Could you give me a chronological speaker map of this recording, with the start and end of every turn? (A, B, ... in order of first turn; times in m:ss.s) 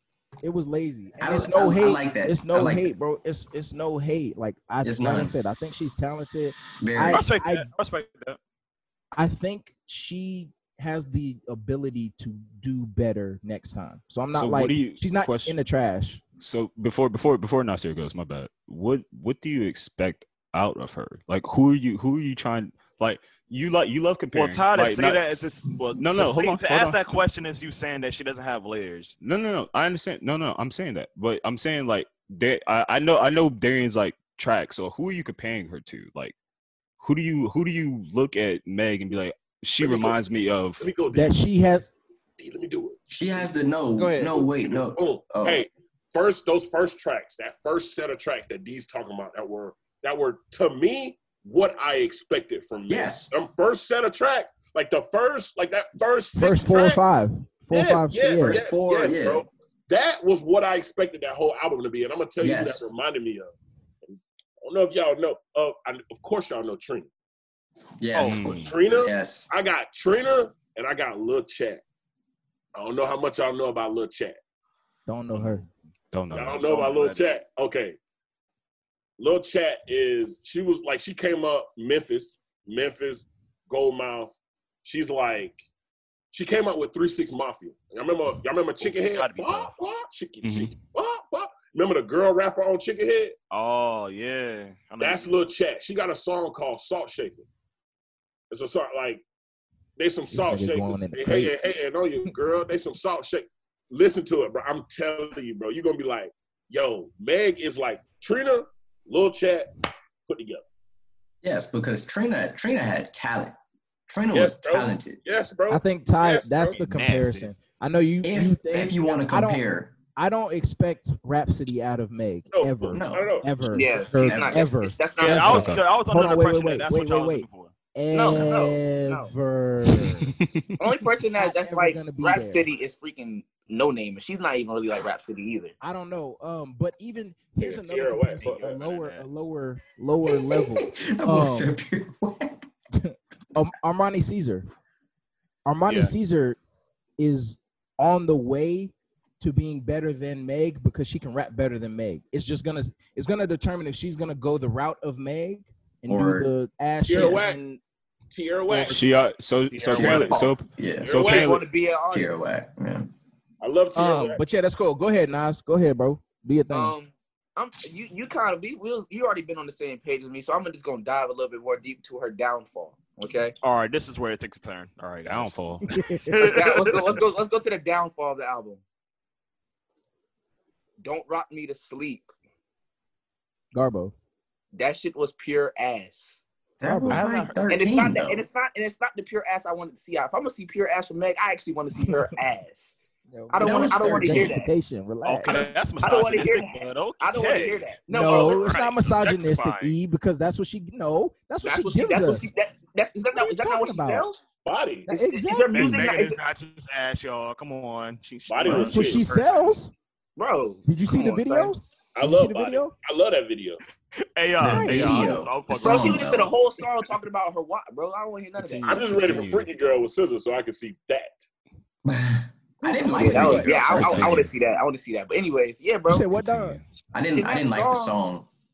0:00.4-0:07.7 A
0:01.2-0:02.9 B
0:04.8-0:05.3 B
0:06.8-0:07.2 B
0:07.1-0:08.4 C
0:09.1-0:16.2 A
0:14.3-0:15.6 D
0:16.4-0:25.4 D
0:24.3-0:29.1 C
0:25.9-0:27.0 D
0:29.2-0:36.3 D
0:37.0-0:40.9 D
0:39.8-0:40.2 E
0:40.8-0:41.4 E
0:41.1-0:41.9 A
0:42.4-0:43.0 E
0:43.1-0:45.6 B
0:44.0-0:44.4 A
0:44.7-0:57.0 E
0:52.9-0:53.3 B
0:56.3-0:58.6 A
0:57.7-1:03.5 E
0:58.4-0:59.4 B
1:02.4-1:02.8 B
1:04.0-1:07.1 E
1:08.0-1:09.5 B
1:08.1-1:08.6 C
1:08.2-1:08.7 D
1:08.5-1:11.8 E
1:12.7-1:14.4 E
1:15.1-1:15.6 A
1:16.1-1:16.8 D
1:16.3-1:18.0 E
1:16.6-1:17.2 C
1:19.2-1:25.6 E
1:26.3-1:33.4 E
1:28.8-1:29.8 C
1:30.4-1:30.7 D
1:33.5-1:35.3 C
1:35.0-1:37.4 E
1:38.5-1:39.2 E
1:40.0-1:49.7 E
1:40.3-1:41.6 A
1:50.3-1:50.6 E
1:51.4-1:53.6 B
1:54.1-1:55.2 B
1:54.3-1:56.8 E
1:55.7-1:59.6 A
1:56.7-1:57.5 C
1:58.2-1:59.9 B
2:00.2-2:10.3 A
2:02.5-2:03.7 E
2:02.9-2:03.4 B
2:03.7-2:05.6 F
2:04.2-2:04.7 B
2:05.2-2:07.7 C
2:05.4-2:05.8 D
2:08.1-2:09.3 F
2:10.0-2:10.8 D
2:10.8-2:15.7 F
2:11.4-2:12.6 A
2:15.8-2:21.8 A
2:17.6-2:18.8 E
2:18.4-2:19.2 C
2:20.4-2:22.6 B
2:22.9-2:24.7 A
2:25.6-2:26.6 A
2:25.9-2:26.1 C
2:27.2-2:37.8 A
2:36.1-2:36.5 B
2:37.0-2:37.6 E
2:38.3-2:39.0 E
2:38.8-2:41.6 D
2:39.7-2:40.5 E
2:39.9-2:40.5 F
2:40.8-2:41.3 B
2:41.0-2:41.6 E
2:41.2-2:42.5 F
2:42.1-2:43.1 B
2:43.6-2:44.4 E
2:43.9-2:46.9 A
2:46.7-2:53.6 F
2:53.6-2:57.2 C
2:55.2-2:55.9 D
2:55.9-2:56.3 A
2:56.4-2:58.8 F
3:01.0-3:02.3 F
3:03.7-3:04.1 A
3:04.7-3:06.4 F
3:06.8-3:08.5 B
3:06.8-3:07.3 A
3:07.1-3:07.6 C
3:07.7-3:13.0 F
3:12.0-3:12.2 A
3:13.3-3:15.7 A
3:13.5-3:14.7 F
3:13.6-3:14.5 B
3:15.2-3:20.0 C
3:16.0-3:18.7 F
3:18.1-3:22.5 A
3:21.6-3:24.4 F
3:23.3-3:24.3 A
3:24.6-3:25.1 E
3:25.1-3:26.1 A
3:25.1-3:26.4 F
3:25.7-3:29.7 C
3:28.5-3:29.3 E
3:28.6-3:29.0 B
3:28.6-3:29.9 A
3:30.4-3:31.8 F
3:30.8-3:32.9 A
3:32.1-3:33.8 E
3:34.2-3:36.3 C
3:34.6-3:35.1 A
3:34.6-3:36.5 B
3:35.7-3:39.2 F
3:38.6-3:39.7 D
3:38.8-3:41.5 E
3:42.0-3:44.5 B
3:42.8-3:44.2 A
3:43.1-3:46.2 F
3:43.2-3:44.5 D
3:46.1-3:46.8 A
3:46.3-3:46.8 D
3:47.1-3:48.5 B
3:47.3-3:48.2 F